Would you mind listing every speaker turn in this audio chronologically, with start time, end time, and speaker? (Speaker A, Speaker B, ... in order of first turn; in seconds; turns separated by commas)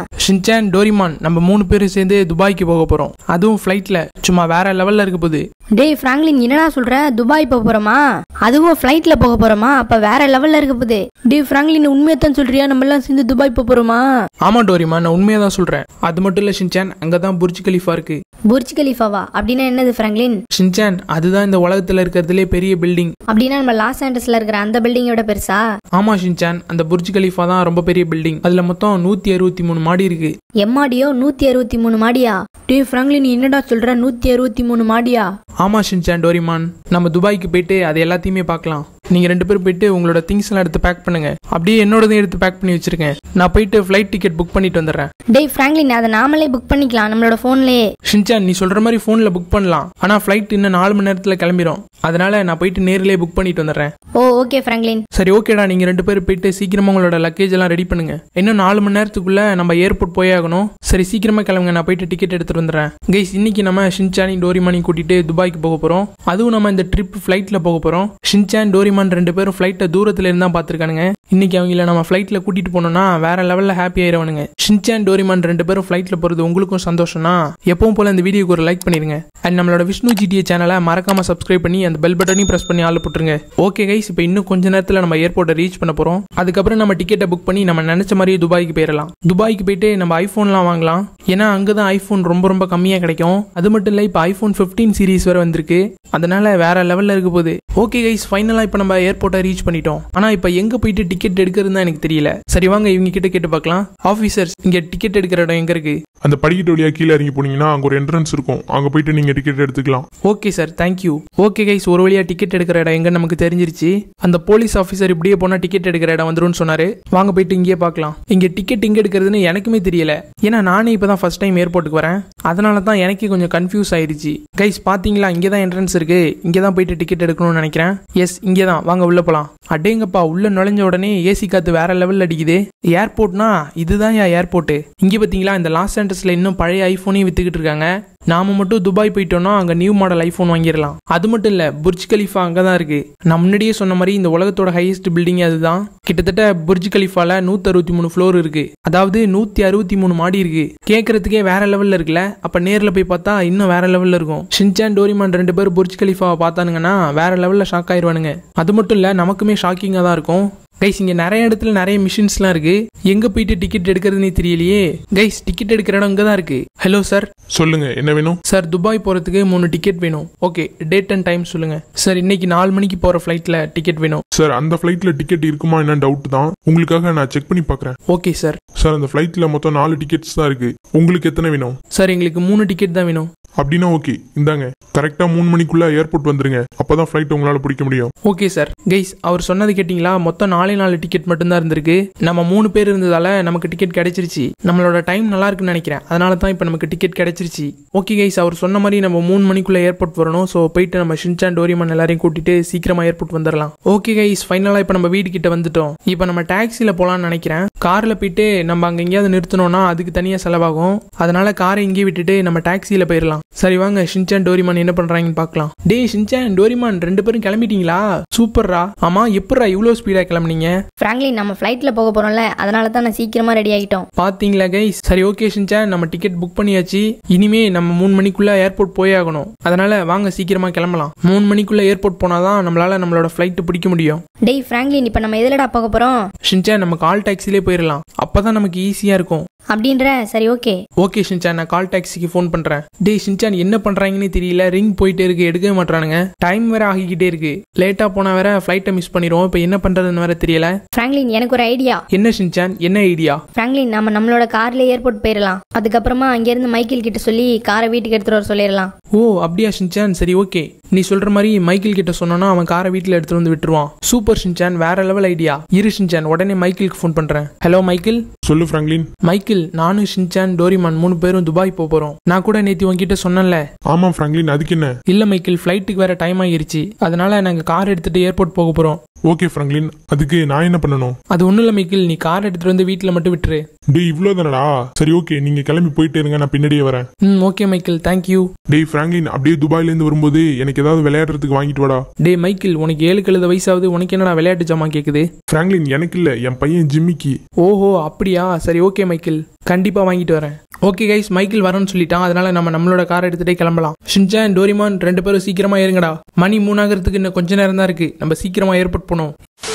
Speaker A: 0.2-5.4, Speaker B: 5.7-14.0, Speaker A: 14.4-18.2, Speaker B: 18.5-20.4, Speaker A: 20.5-23.1, Speaker B: 23.3-25.6, Speaker A: 25.9-30.3, Speaker B: 30.6-35.3, Speaker A: 35.6-45.1, Speaker B: 45.3-47.8, Speaker A: 48.1-53.9, Speaker B: 54.2-55.0, Speaker A: 55.1-106.0, Speaker C: 106.2-110.0, Speaker A: 110.2-167.3, Speaker C: 167.5-168.4, Speaker A: 168.5-174.2, Speaker C: 174.3-177.9, Speaker A: 178.1-178.6, Speaker C: 178.8-181.8, Speaker A: 181.9-183.3, Speaker C: 183.6-188.1, Speaker A: 188.2-220.7, Speaker B: 221.0-224.1, Speaker A: 224.2-234.2, Speaker B: 234.4-236.2, Speaker A: 236.4-239.4, Speaker B: 239.7-240.8, Speaker A: 241.0-250.7, Speaker B: 250.9-252.0, Speaker A: 252.1-253.4, Speaker B: 253.6-258.9, Speaker A: 259.1-268.2, Speaker C: 268.4-269.1, Speaker A: 269.2-273.6, Speaker C: 273.9-274.9, Speaker A: 275.1-279.0, Speaker C: 279.3-281.2, Speaker A: 281.3-283.6, Speaker C: 283.9-287.1, Speaker A: 287.2-288.5, Speaker C: 288.7-292.0, Speaker A: 292.2-295.2, Speaker C: 295.5-297.4, Speaker A: 297.6-309.3